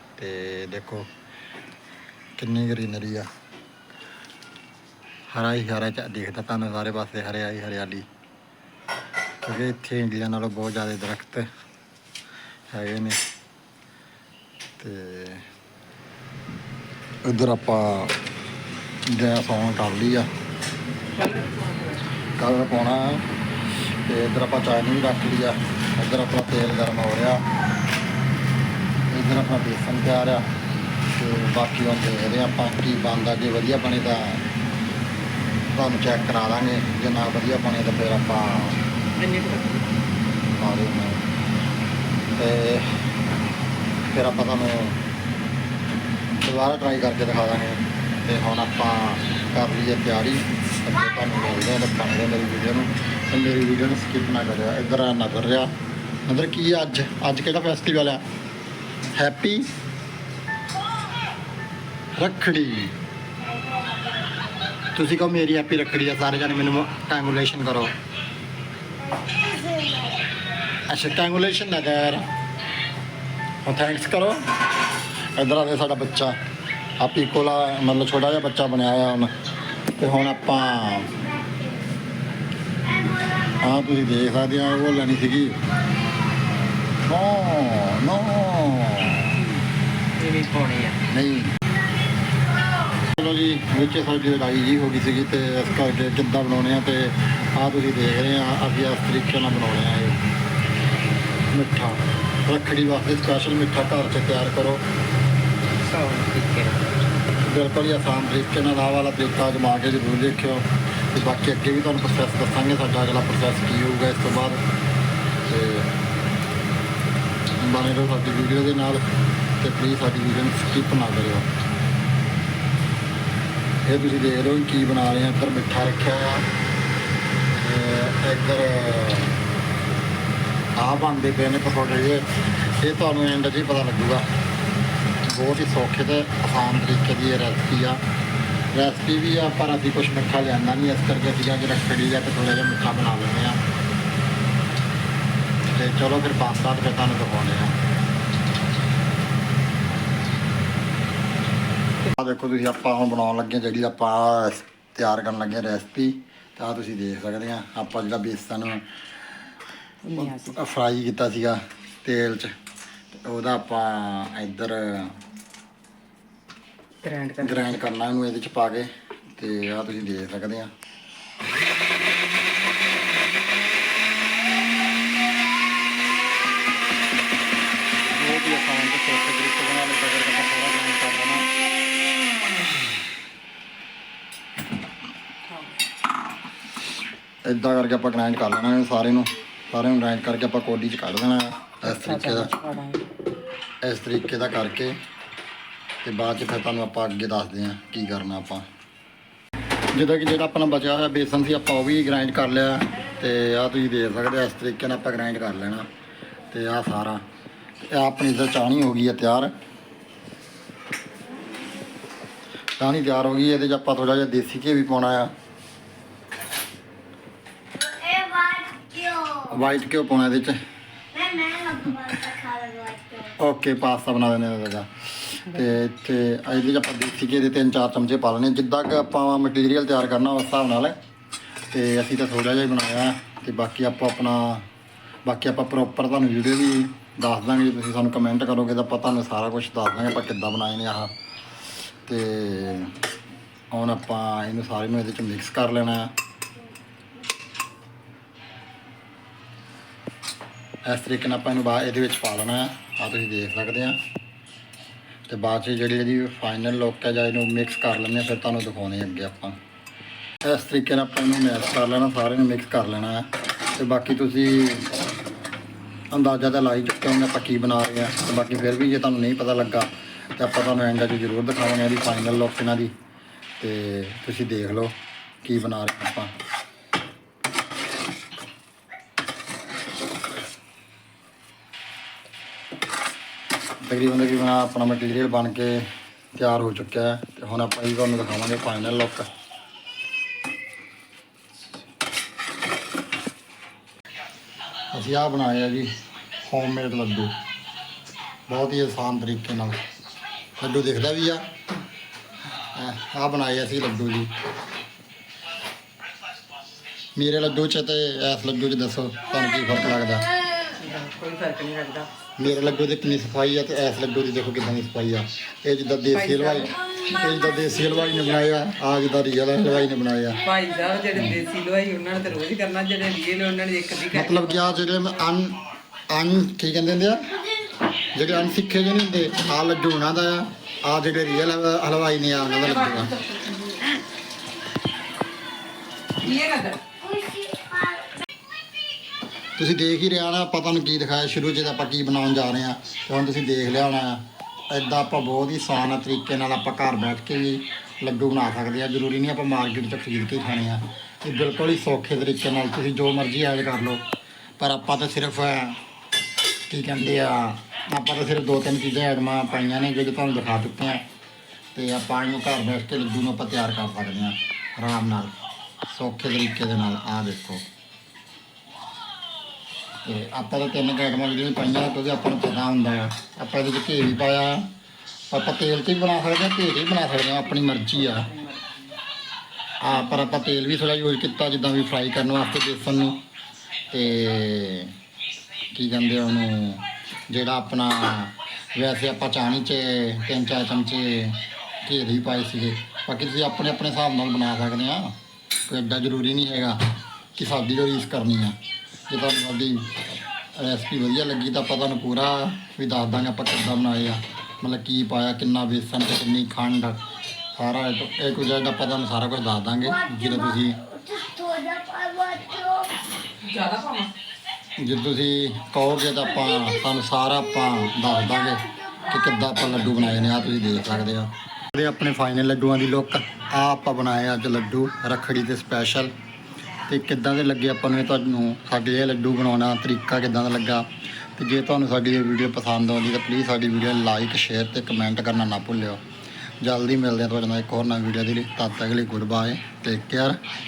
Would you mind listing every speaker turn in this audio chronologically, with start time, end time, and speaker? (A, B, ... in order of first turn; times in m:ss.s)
0:00.2-0:01.1 A
0:02.4-0:03.3 A
0:05.3-0:08.1 A
0:09.4-0:11.5 A
0:12.7-0:13.2 A
0:14.8-0:15.4 A
0:17.2-0:18.1 A
0:19.0-0:20.3 A
0:21.1-0:22.1 B
0:22.3-0:23.2 A
0:23.9-0:27.4 A
0:29.1-0:30.5 A
0:31.1-0:34.4 A
0:35.7-0:38.8 A
0:39.2-0:39.8 B
0:40.5-0:41.2 A
0:42.4-0:43.0 A
0:44.1-0:45.0 A
0:46.4-0:55.7 A
0:56.2-0:58.2 A
0:59.1-0:59.7 A
1:02.2-1:02.9 A
1:04.9-1:07.9 A
1:10.8-1:12.3 A
1:13.6-1:14.4 A
1:15.3-1:16.4 A
1:17.0-1:19.3 A
1:19.9-1:21.3 A
1:23.4-1:25.7 A
1:27.0-1:29.5 A
1:30.2-1:31.0 B
1:31.1-1:31.5 A
1:33.0-1:40.2 A
1:41.5-1:44.8 A
1:45.9-1:46.9 B
1:47.3-1:54.6 A
1:55.4-1:55.9 A
1:57.6-1:59.0 A
1:59.6-2:01.5 A
2:03.8-2:06.5 A
2:07.5-2:09.3 A
2:10.8-2:14.3 A
2:15.2-2:18.0 A
2:18.7-2:23.6 A
2:25.7-2:27.7 A
2:32.0-2:38.8 A
2:40.0-2:40.6 B
2:40.2-2:42.5 A
2:43.2-2:45.2 A
2:47.0-2:47.8 B
2:47.4-2:50.7 A
2:58.1-3:01.5 A
3:07.4-3:12.5 A
3:11.9-3:13.0 B
3:13.8-3:15.0 A
3:16.0-3:18.6 A
3:19.9-3:25.9 A
3:26.5-3:27.2 A
3:27.9-3:29.5 A
3:32.8-3:35.3 A
3:38.0-3:39.4 C
3:39.4-3:40.6 A
3:41.2-3:43.2 C
3:43.2-3:51.0 A
3:51.7-3:54.7 A
3:55.2-4:01.1 A
4:02.0-4:02.9 A
4:03.7-4:06.1 A
4:10.8-4:14.0 A
4:15.3-4:19.6 A
4:20.4-4:24.9 A
4:26.1-4:32.9 A
4:33.6-4:36.3 A
4:43.8-4:49.3 A
4:54.9-4:55.9 A
4:56.4-4:57.3 A
4:58.5-4:59.8 A
5:00.6-5:01.4 A
5:02.7-5:04.3 A
5:07.1-5:10.3 A
5:10.7-5:12.1 B
5:12.4-5:20.4 A
5:16.1-5:16.9 B
5:20.4-5:25.0 B
5:24.1-5:27.4 A
5:28.1-5:33.2 A
5:32.8-5:33.9 B
5:36.2-5:37.0 B
5:37.0-5:38.0 C
5:39.6-5:54.0 A
5:54.6-5:55.8 A
5:56.7-6:01.0 A
6:01.7-6:05.3 A
6:05.9-6:07.6 A
6:10.0-6:14.7 A
6:15.3-6:18.3 A
6:18.3-6:18.8 B
6:19.8-6:23.2 A
6:23.9-6:24.9 A
6:25.7-6:38.6 A
6:39.1-6:39.9 A
6:40.5-6:47.0 A
6:47.5-6:51.1 A
6:51.1-6:52.9 C
6:53.4-6:54.1 B
6:54.8-7:06.1 A
7:06.9-7:16.0 A
7:16.6-7:20.4 A